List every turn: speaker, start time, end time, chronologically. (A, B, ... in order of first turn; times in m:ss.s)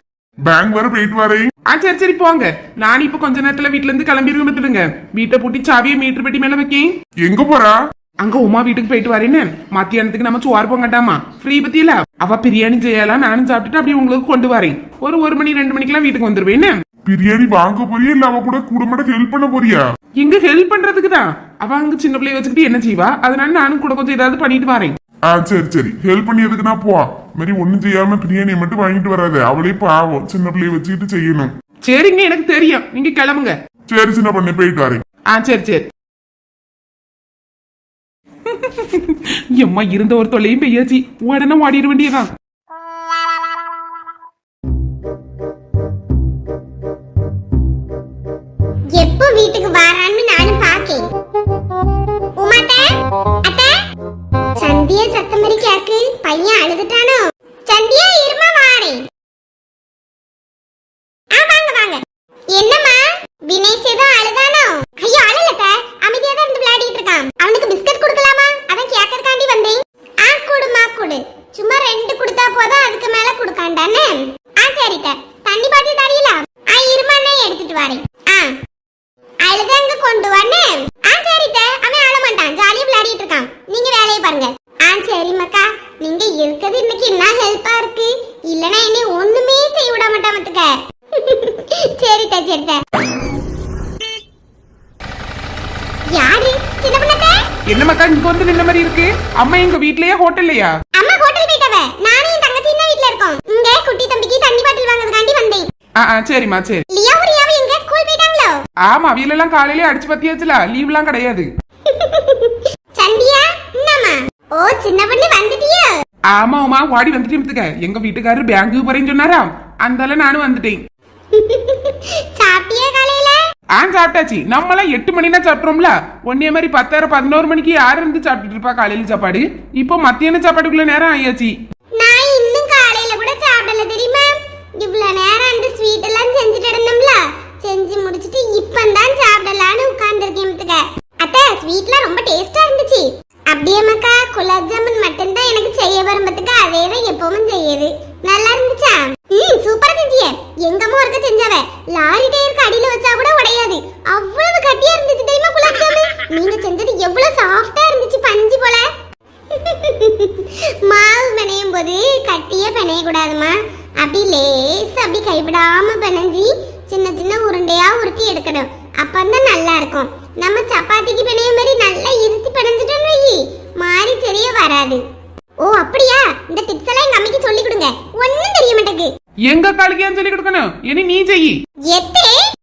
0:00.4-0:01.5 A
0:01.7-0:06.9 B
0:07.2-0:07.8 A
0:08.2-0:16.7 B
0:17.0-0:19.8 A
0:20.2-0:24.9 B
0:25.3-0:31.5 A
0:31.9-0:33.5 B
0:33.9-0:35.0 A
0:35.3-0:35.8 B
0:38.5-0:42.3 B
0:49.0-0:51.0 C
0:52.4-0:52.9 C
0:53.4-0:53.8 C
0:54.6-0:59.0 C
1:01.3-1:02.0 C
1:02.5-1:18.6 C
1:19.4-1:32.8 C
1:36.1-1:37.4 C
1:37.7-1:40.7 B
1:41.0-1:45.6 C
1:46.0-1:46.8 B
1:46.9-1:48.6 C
1:48.8-1:51.5 B
1:51.9-1:56.0 C
1:56.3-2:00.8 B
2:01.3-2:03.4 C
2:03.8-2:11.6 B
2:12.0-2:38.9 C
2:39.5-2:55.0 C
2:55.6-2:59.1 C
2:59.5-3:01.6 B
3:01.9-3:02.4 C